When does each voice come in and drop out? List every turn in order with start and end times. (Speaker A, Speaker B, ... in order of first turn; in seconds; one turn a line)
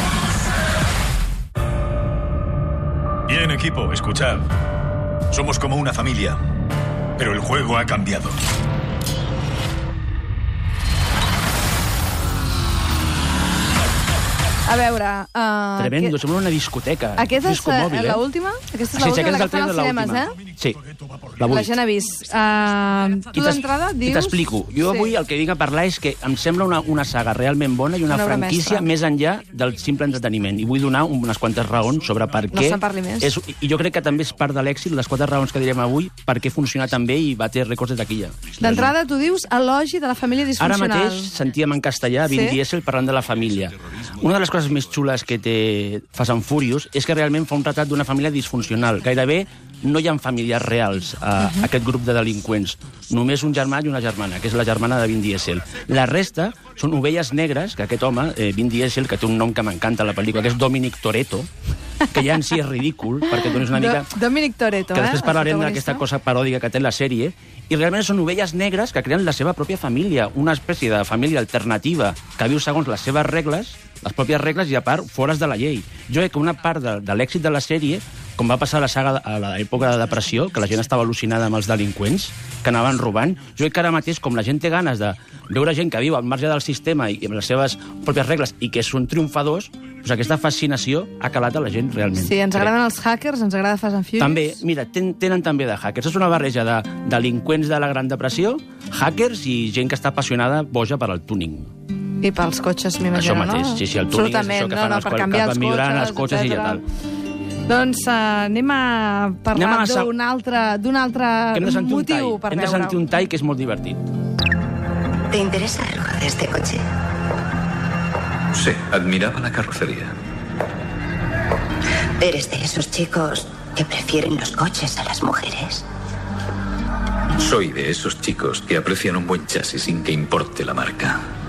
Speaker A: 3.3-4.5
Speaker A: 5.3-6.4
Speaker A: 7.2-8.4
Speaker B: 14.7-16.1
Speaker C: 15.8-18.2
Speaker B: 17.2-20.4
Speaker C: 18.9-20.8
Speaker C: 21.4-21.7
Speaker B: 21.4-25.1
Speaker C: 23.3-38.9
Speaker B: 28.1-28.9
Speaker B: 32.5-33.3
Speaker B: 38.6-41.3
Speaker C: 40.6-61.5
Speaker B: 42.2-42.6
Speaker C: 62.1-64.1
Speaker B: 63.4-66.0
Speaker C: 64.9-92.7
Speaker B: 92.2-94.6
Speaker C: 94.2-101.7
Speaker B: 102.2-106.8
Speaker C: 103.1-106.8
Speaker B: 107.7-113.1
Speaker C: 109.5-110.1
Speaker C: 111.5-114.0
Speaker D: 115.3-116.8
Speaker E: 118.5-120.1
Speaker D: 122.2-125.8
Speaker E: 127.4-131.2